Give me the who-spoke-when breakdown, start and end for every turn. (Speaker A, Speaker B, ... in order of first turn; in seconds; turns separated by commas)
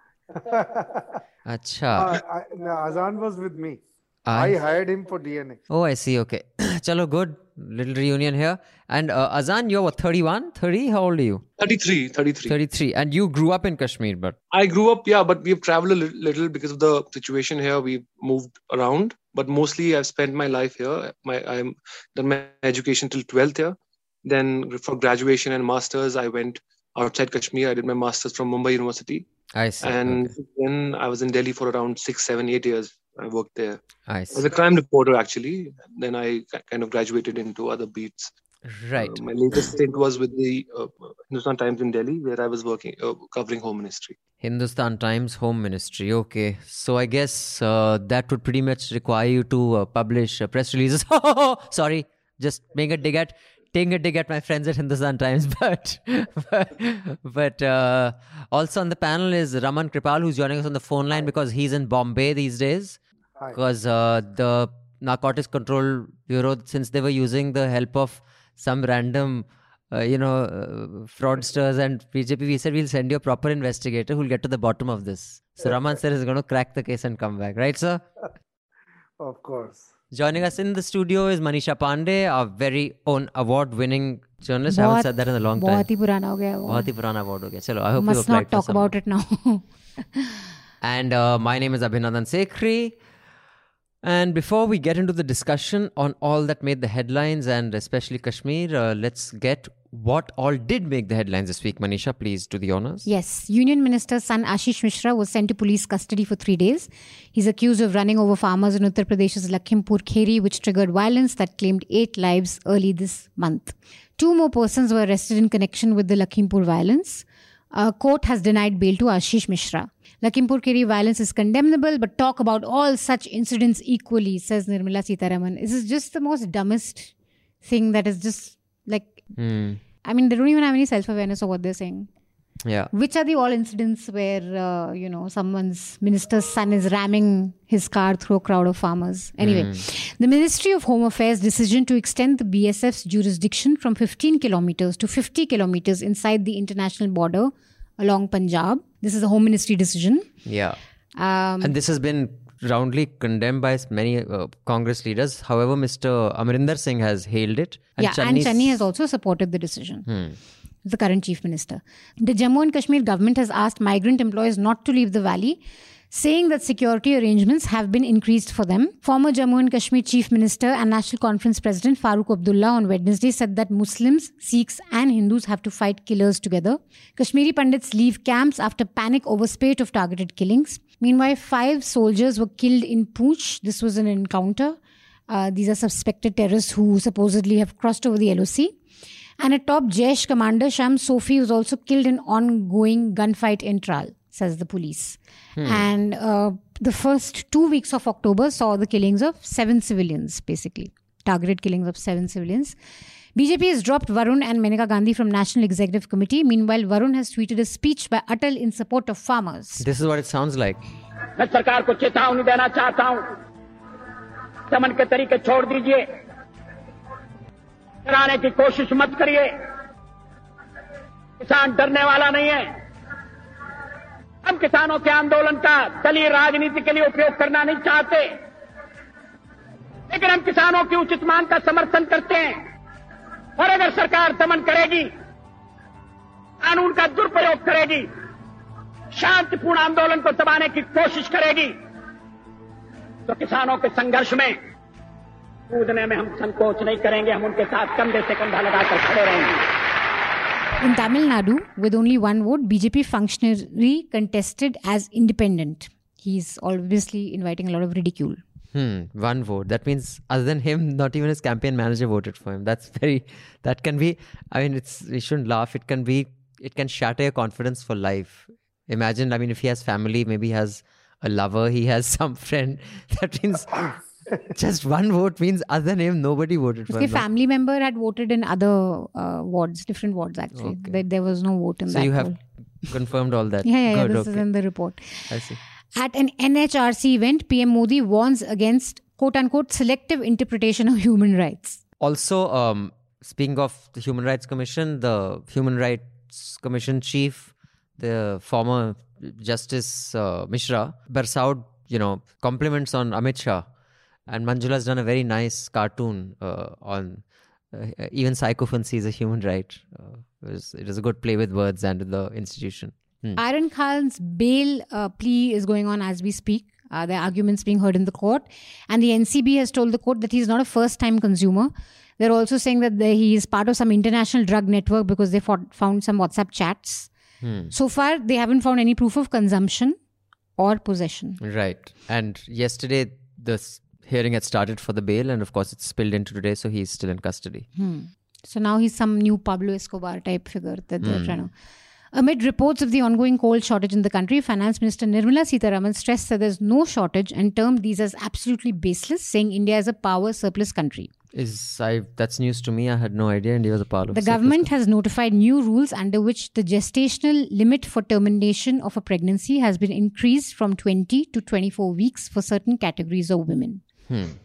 Speaker A: 0.3-1.2, Speaker B: 1.4-2.1, Speaker A: 1.9-5.6, Speaker B: 4.2-4.5, Speaker B: 5.7-11.4, Speaker C: 11.6-12.6, Speaker B: 12.4-14.3, Speaker C: 14.5-29.3, Speaker B: 29.5-30.3, Speaker C: 29.8-33.8, Speaker B: 34.0-34.5, Speaker C: 34.3-38.3, Speaker B: 38.6-39.2, Speaker C: 39.0-44.1, Speaker B: 44.4-63.0, Speaker B: 63.5-78.0, Speaker A: 79.2-79.9, Speaker B: 80.1-85.9, Speaker D: 84.7-86.9, Speaker B: 86.6-88.9, Speaker D: 88.0-89.6, Speaker B: 90.8-93.0, Speaker B: 94.0-103.0, Speaker D: 103.0-129.2, Speaker B: 129.4-129.8, Speaker D: 130.0-132.1, Speaker B: 132.6-132.9, Speaker D: 132.9-150.3, Speaker B: 139.4-139.8, Speaker B: 150.4-150.8, Speaker D: 151.2-151.8, Speaker B: 151.6-158.8, Speaker D: 158.0-160.1, Speaker B: 160.1-160.4, Speaker D: 160.8-165.6, Speaker D: 166.1-184.8, Speaker D: 185.3-188.8, Speaker D: 189.4-202.8, Speaker B: 195.6-195.9, Speaker D: 203.3-209.8, Speaker B: 209.8-210.8, Speaker E: 211.4-213.3, Speaker E: 214.7-216.0, Speaker E: 218.0-219.5, Speaker E: 221.4-222.7, Speaker E: 224.4-228.3, Speaker E: 230.1-232.6, Speaker E: 233.6-235.1, Speaker E: 236.6-238.1, Speaker E: 239.1-241.7, Speaker E: 243.3-244.6, Speaker E: 245.7-249.6, Speaker D: 250.8-258.4, Speaker B: 258.7-277.2, Speaker D: 276.9-282.4, Speaker B: 280.5-281.0, Speaker B: 281.9-282.3, Speaker B: 282.9-284.4, Speaker D: 283.6-285.3, Speaker B: 285.3-285.6, Speaker D: 285.9-291.8, Speaker B: 292.0-303.6, Speaker B: 304.3-313.4, Speaker D: 313.4-327.1, Speaker B: 327.4-327.7, Speaker D: 327.7-330.0, Speaker D: 330.6-331.4, Speaker B: 331.4-337.6, Speaker D: 337.8-341.5, Speaker B: 341.0-341.4, Speaker D: 342.1-351.1, Speaker B: 351.3-354.7, Speaker D: 354.1-363.8, Speaker B: 364.1-364.4